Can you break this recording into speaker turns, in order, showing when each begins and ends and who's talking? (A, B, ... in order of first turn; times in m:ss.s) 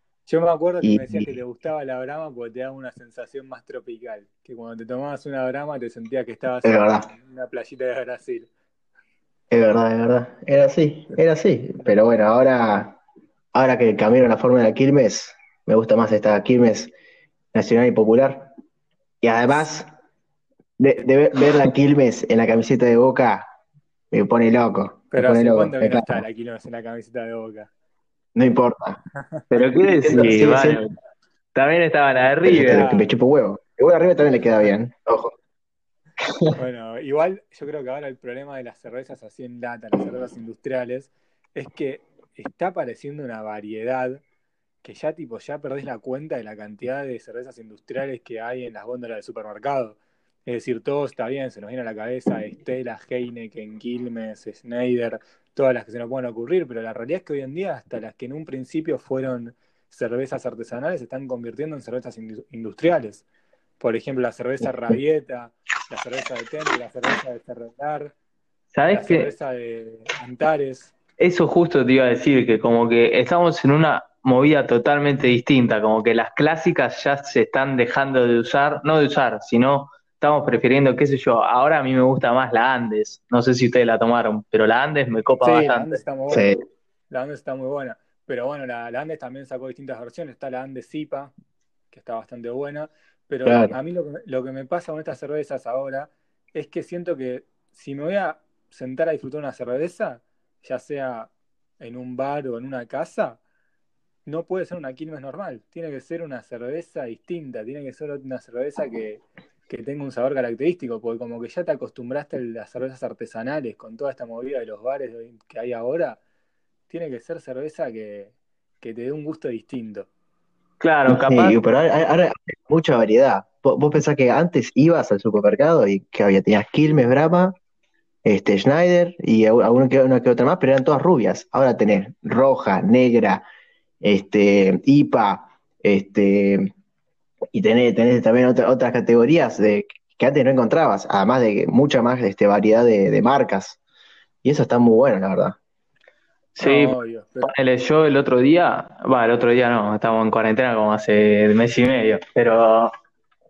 0:00.3-0:08.5 A
0:00.8-0:01.4 B
0:06.6-0:07.1 B
0:09.5-0:13.0 B
0:13.5-0:16.9 B
0:17.5-0:18.5 B
0:19.2-0:19.9 B
0:20.8-0:23.5 B
0:24.1-0:26.2 B
0:25.1-0:27.7 A
0:28.4-0:29.0 B
0:29.5-0:30.9 C
0:30.0-0:30.8 B
0:31.6-0:32.9 C
0:32.4-0:35.3 B
0:32.7-0:33.1 A
0:36.6-0:44.2 A
0:44.8-1:03.2 A
1:03.8-1:08.1 A
1:08.7-1:09.3 C
1:08.9-1:10.9 A
1:11.2-1:26.0 C
1:25.4-1:26.6 A
1:26.3-1:26.6 B
1:27.1-1:31.3 A
1:31.9-1:43.4 A
1:33.4-1:33.8 B
1:44.3-1:56.2 A
1:56.9-2:00.1 A
2:00.8-2:01.6 C
2:01.1-2:07.6 B
2:08.2-2:13.4 B
2:14.0-2:16.7 B
2:17.5-2:23.8 B
2:24.4-2:25.6 B
2:26.6-2:32.9 C
2:26.6-2:27.6 A